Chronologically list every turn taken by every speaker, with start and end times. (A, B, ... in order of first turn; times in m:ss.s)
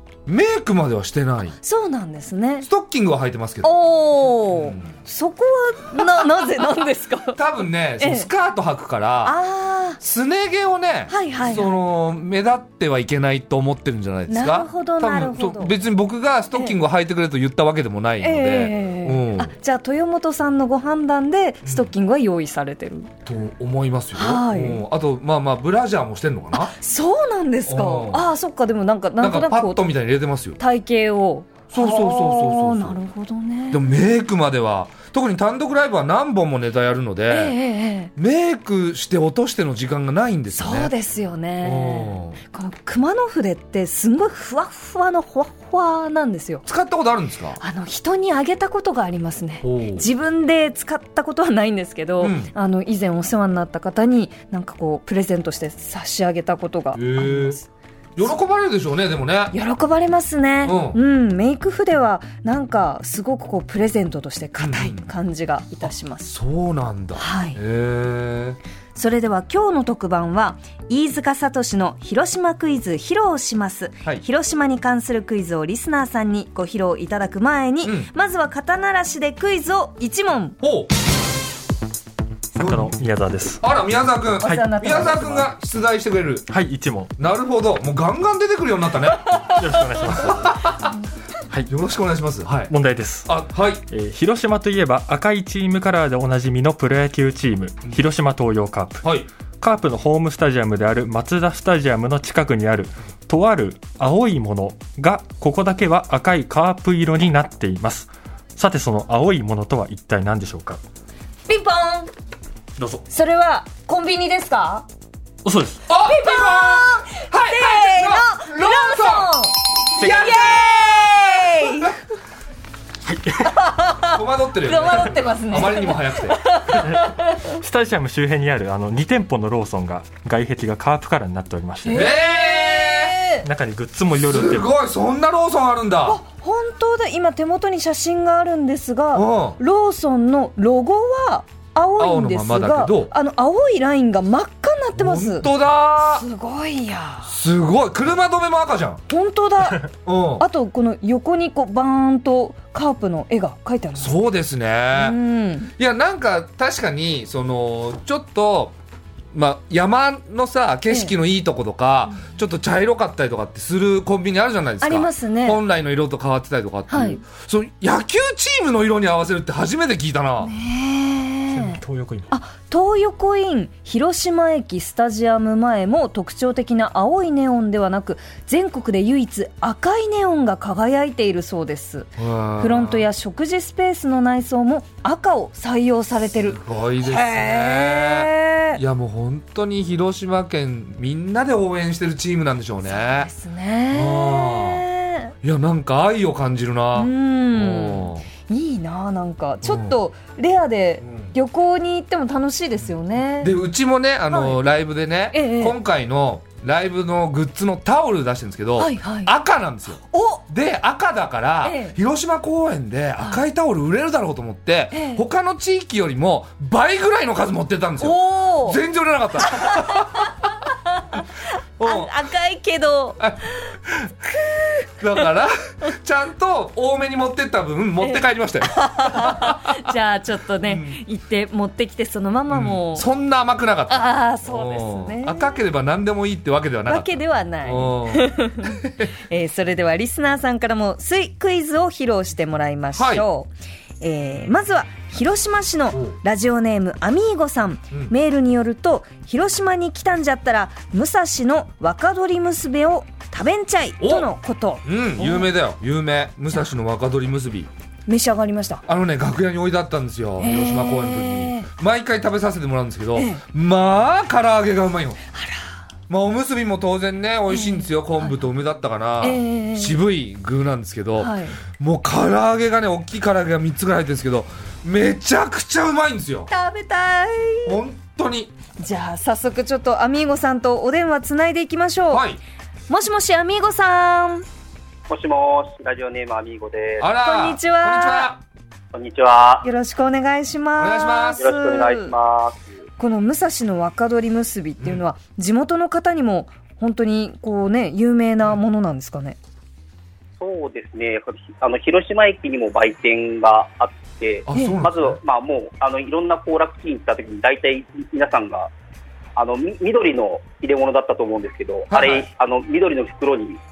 0:00.3-0:01.6 A
0:01.6-0:02.7 B
0:02.6-0:03.7 A
0:03.6-0:07.4 B
0:04.5-0:04.9 A
0:07.4-0:09.4 A
0:08.0-0:08.3 B
0:09.2-0:10.0 B
0:10.0-0:19.5 A
0:11.1-0:11.7 B
0:14.3-0:15.7 B
0:18.2-0:23.1 B
0:21.6-0:21.9 A
0:23.3-0:26.7 A
0:24.2-0:24.8 B
0:26.5-0:29.8 B
0:27.7-0:28.3 A
0:29.2-0:30.6 A
0:30.6-0:33.8 B
0:31.7-0:33.0 A
0:33.7-0:37.6 A
0:37.3-0:38.1 B
0:38.2-0:40.9 A
0:40.5-0:46.6 B
0:41.6-0:42.4 A
0:46.7-0:47.6 A
0:47.6-0:57.7 B
0:49.6-0:50.1 A
0:52.2-0:52.5 A
0:56.9-0:57.6 A
0:58.2-0:59.5 A
0:59.5-1:06.4 B
1:00.6-1:01.0 A
1:04.6-1:05.1 A
1:06.3-1:08.6 A
1:07.2-1:07.6 B
1:09.0-1:20.6 B
1:17.8-1:18.1 A
1:20.6-1:20.9 A
1:22.6-1:22.9 A
1:22.6-1:23.6 C
1:23.6-1:26.5 A
1:24.4-1:25.5 B
1:24.4-1:24.8 C
1:26.5-1:27.1 C
1:27.2-1:29.3 A
1:29.3-1:29.6 B
1:29.6-1:30.7 C
1:30.1-1:30.8 A
1:31.7-1:32.7 A
1:32.7-1:39.1 C
1:33.2-1:33.8 A
1:39.0-1:39.3 A
1:39.6-1:50.8 C
1:51.5-1:52.1 B
1:53.1-1:54.9 B
1:55.4-1:55.8 C
1:55.9-1:59.3 A
1:56.0-2:02.0 B
2:00.0-2:01.9 A
2:00.0-2:00.4 C
2:03.1-2:03.5 C
2:03.4-2:07.6 B
2:04.1-2:06.5 A
2:06.8-2:12.1 C
2:11.8-2:13.5 B
2:11.9-2:13.2 A
2:13.4-2:14.7 C
2:14.3-2:16.2 A
2:16.1-2:25.5 B
2:19.1-2:19.6 A
2:22.0-2:23.1 A
2:25.0-2:26.2 A
2:26.0-2:27.3 B
2:27.3-2:29.0 A
2:29.1-2:34.2 B
2:30.0-2:30.4 A
2:34.0-2:35.2 A
2:34.9-2:35.7 B
2:35.8-2:38.8 A
2:39.3-2:50.5 A
2:44.8-2:45.6 B
2:46.9-2:47.2 B
2:50.4-3:08.8 B
2:51.5-2:52.3 C
3:02.2-3:03.1 A
3:06.5-3:13.3 A
3:12.8-3:15.3 B
3:13.9-3:14.8 A
3:15.4-3:18.3 A
3:16.9-3:23.5 B
3:19.6-3:20.0 A
3:21.0-3:21.3 A
3:23.4-3:40.3 A
3:24.3-3:24.6 B
3:25.3-3:25.8 B
3:28.8-3:29.3 B
3:30.1-3:30.4 B
3:31.6-3:32.0 B
3:34.9-3:35.2 B
3:38.0-3:38.8 B
3:39.4-3:41.3 B
3:41.8-3:42.1 A
3:41.8-3:43.7 B
3:43.2-3:44.1 A
3:44.3-3:45.3 B
3:45.0-3:49.8 A
3:48.0-3:53.1 B
3:50.7-3:51.0 A
3:52.5-3:57.1 A
3:53.9-3:55.6 B
3:56.9-4:15.5 B
3:57.6-3:59.1 A
4:03.0-4:03.3 A
4:05.9-4:06.2 A
4:14.0-4:14.3 A
4:14.8-4:17.7 A
4:18.1-4:18.8 B
4:18.9-4:25.2 A
4:20.4-4:21.7 B
4:23.2-4:23.4 B
4:25.3-4:25.7 B
4:26.1-4:36.5 A
4:27.5-4:28.5 B
4:29.2-4:30.0 B
4:31.2-4:31.6 B
4:36.5-4:37.8 B
4:37.7-4:38.5 A
4:38.8-4:42.2 B
4:42.1-4:42.4 A
4:42.9-4:44.4 B
4:45.1-4:47.1 D
4:47.0-4:48.4 A
4:47.2-4:48.3 B
4:48.9-4:49.7 D
4:49.6-4:52.2 B
4:50.8-4:51.4 A
4:51.4-4:52.7 D
4:53.0-4:59.4 B
5:00.4-5:08.7 D
5:04.5-5:05.2 A
5:04.5-5:04.8 B
5:09.4-5:13.6 D
5:11.9-5:12.3 A